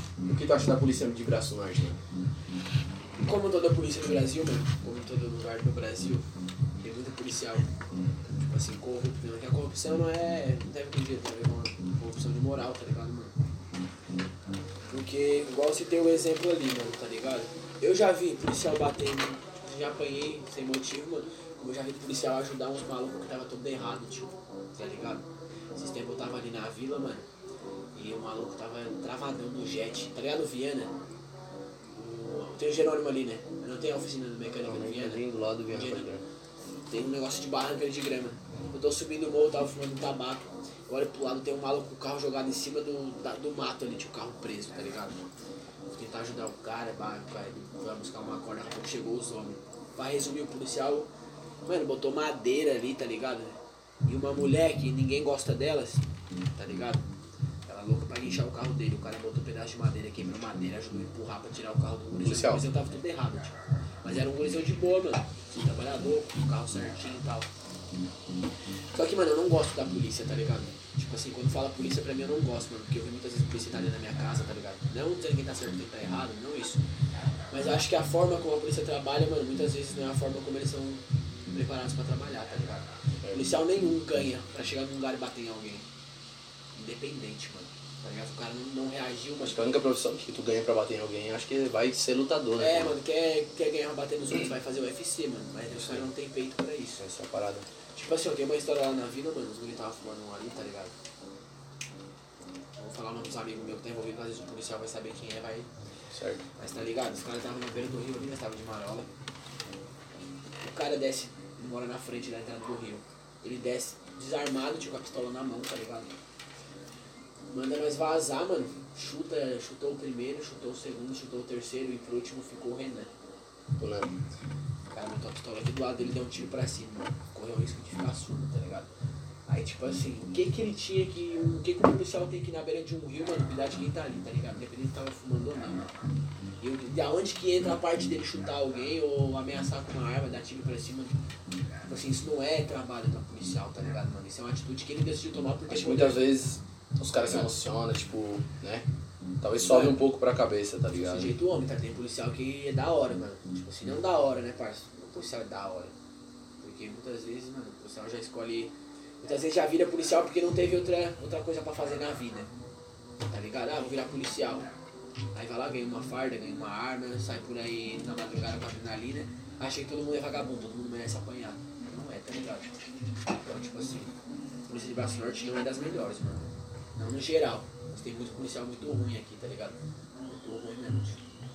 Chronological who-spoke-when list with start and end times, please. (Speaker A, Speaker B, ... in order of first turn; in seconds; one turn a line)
Speaker A: 0.2-2.0
Speaker B: 3.2-6.2
Speaker B: 6.8-7.7
Speaker B: 8.2-13.3
Speaker B: 14.9-27.2
Speaker B: 27.9-30.9
Speaker B: 31.9-36.0
Speaker A: 34.6-36.2
Speaker B: 36.9-45.2
Speaker B: 45.9-51.1
Speaker B: 51.6-56.0
Speaker B: 56.5-57.0
Speaker B: 57.6-67.5
Speaker A: 62.2-62.6
Speaker B: 68.9-76.8
Speaker B: 77.5-85.8
Speaker A: 83.2-83.5
Speaker B: 86.7-89.7
Speaker A: 89.4-93.0
Speaker B: 92.6-97.0
Speaker A: 95.7-96.1
Speaker A: 97.0-97.7
Speaker B: 97.9-100.9
Speaker B: 102.8-105.7
Speaker A: 106.1-106.4
Speaker B: 106.6-109.1
Speaker B: 110.6-116.1
Speaker B: 117.5-123.1
Speaker A: 123.8-124.1
Speaker B: 124.9-128.9
Speaker B: 129.5-135.9
Speaker B: 136.6-141.1
Speaker B: 141.8-146.2
Speaker A: 145.7-148.8
Speaker A: 149.4-151.3
Speaker B: 149.6-150.0
Speaker B: 150.9-155.9
Speaker B: 156.6-162.5
Speaker B: 163.2-164.7
Speaker B: 165.3-172.7
Speaker B: 173.4-174.1
Speaker B: 174.7-181.2